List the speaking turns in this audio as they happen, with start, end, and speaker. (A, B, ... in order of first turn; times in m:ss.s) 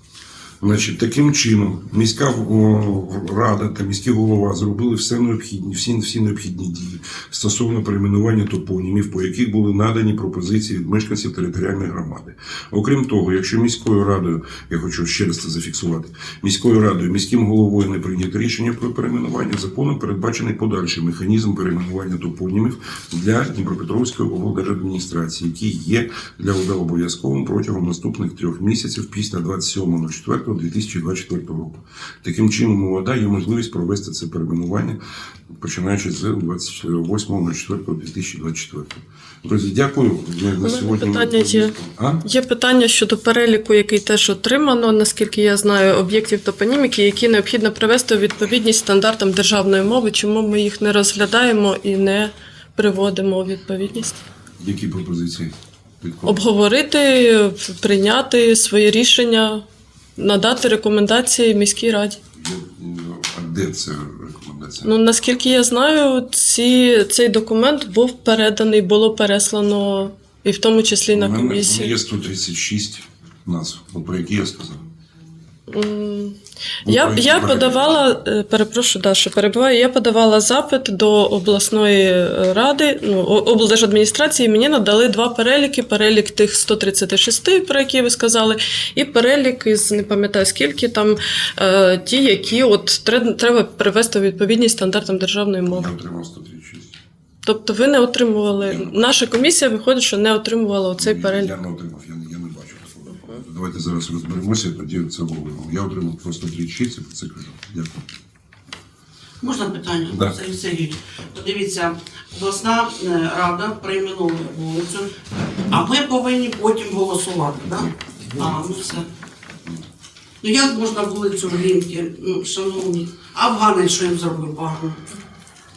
0:00.6-0:35.0 A
0:35.6-0:42.2 A
0:40.6-0:54.2 B
0:54.6-0:56.4 A
0:56.2-0:59.6 B
1:00.2-1:02.2 B
1:02.4-1:04.9 A
1:04.8-1:12.0 B
1:11.1-1:14.8 A
1:15.7-1:35.9 B
1:16.8-1:18.2 A
1:35.7-1:36.9 A
1:37.4-1:41.5 B
1:38.6-1:39.0 A
1:41.0-1:48.0 A
1:49.4-1:55.1 C
1:50.1-1:50.4 A
1:55.7-1:59.1 C
1:57.8-1:59.0 A
2:00.4-2:05.1 C